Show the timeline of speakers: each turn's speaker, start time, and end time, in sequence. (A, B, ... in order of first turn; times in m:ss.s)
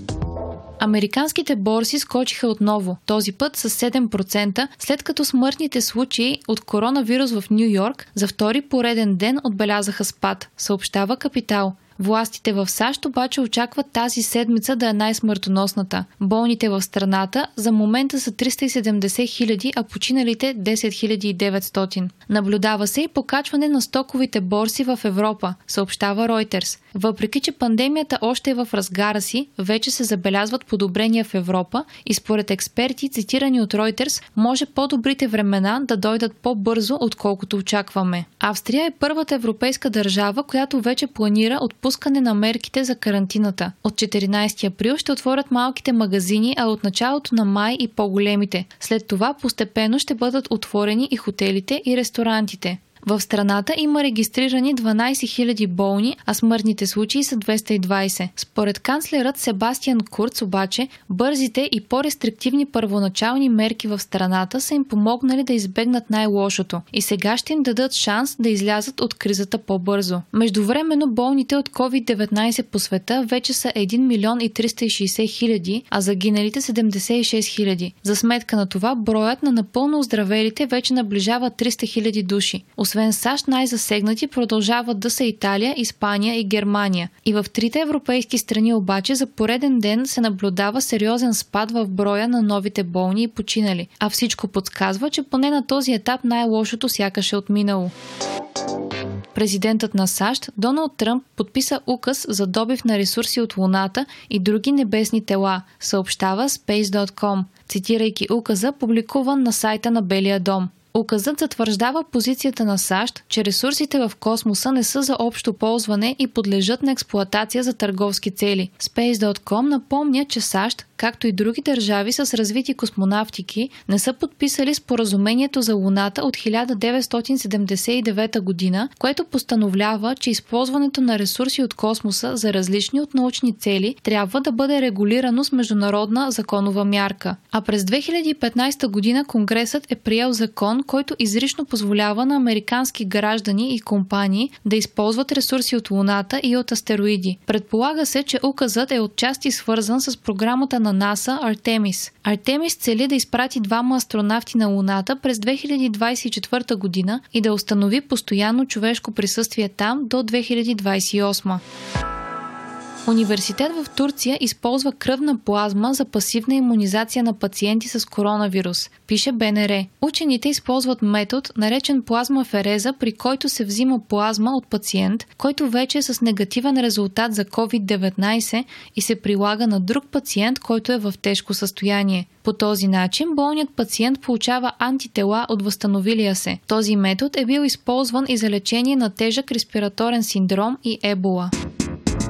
0:00.8-1:37.9 A
1:39.3-2:41.6 A
2:43.1-3:11.5 A